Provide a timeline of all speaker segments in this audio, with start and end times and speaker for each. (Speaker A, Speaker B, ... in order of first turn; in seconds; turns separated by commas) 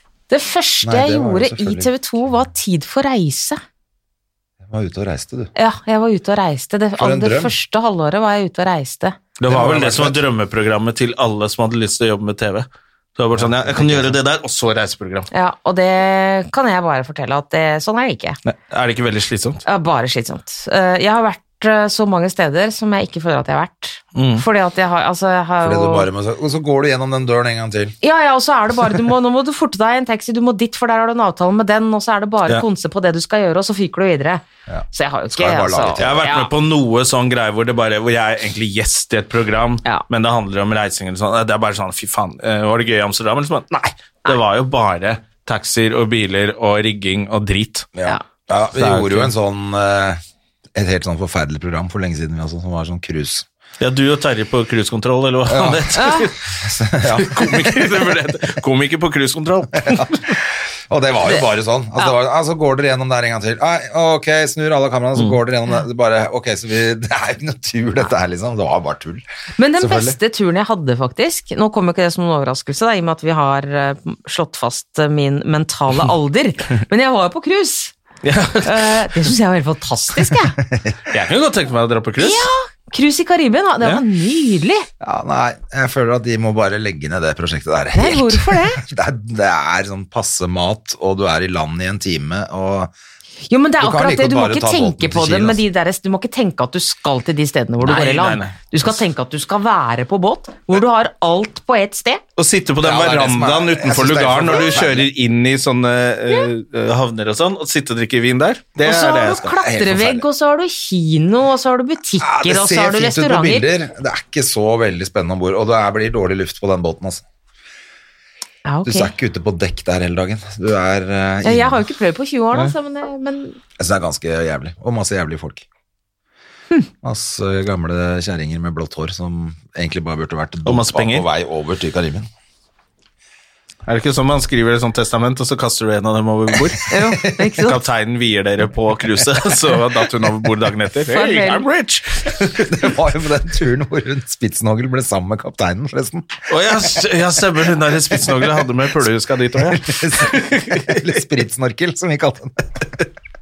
Speaker A: 0.3-3.6, Speaker B: 0.8-1.9, Speaker B: 4.6-5.5, Speaker A: 5.6-9.2, Speaker B: 7.0-7.5, Speaker C: 9.4-15.3, Speaker B: 9.5-10.2, Speaker B: 13.3-14.2, Speaker A: 15.3-18.4, Speaker C: 18.4-19.6, Speaker A: 19.6-26.1, Speaker C: 24.1-24.4, Speaker B: 25.6-27.9, Speaker A: 28.0-36.5, Speaker B: 34.7-36.2, Speaker C: 36.0-47.9, Speaker B: 48.0-50.2, Speaker C: 48.8-49.3, Speaker B: 50.8-53.5, Speaker C: 53.8-56.4, Speaker B: 55.5-58.0, Speaker A: 56.0-56.3, Speaker C: 57.0-60.4, Speaker B: 59.9-60.3, Speaker B: 60.9-69.2, Speaker A: 69.6-77.9, Speaker B: 69.8-70.2, Speaker C: 78.2-79.3, Speaker A: 78.6-80.6, Speaker B: 80.6-81.0, Speaker C: 81.1-82.5, Speaker A: 82.2-84.9, Speaker B: 85.0-92.9, Speaker A: 87.9-88.8, Speaker A: 93.5-102.2, Speaker B: 93.8-95.6, Speaker C: 97.8-98.6, Speaker C: 102.4-109.5, Speaker B: 102.8-105.1, Speaker A: 108.8-113.7, Speaker B: 109.5-110.2, Speaker B: 112.2-117.2, Speaker A: 118.7-119.1, Speaker B: 118.8-121.8, Speaker A: 121.4-123.6, Speaker B: 123.8-125.6, Speaker B: 127.0-132.3, Speaker C: 130.6-131.3, Speaker C: 133.9-136.9, Speaker A: 136.9-137.8, Speaker C: 137.6-142.7, Speaker A: 141.1-141.7, Speaker B: 142.6-146.4, Speaker C: 146.5-150.9, Speaker B: 148.1-148.6, Speaker B: 149.6-153.1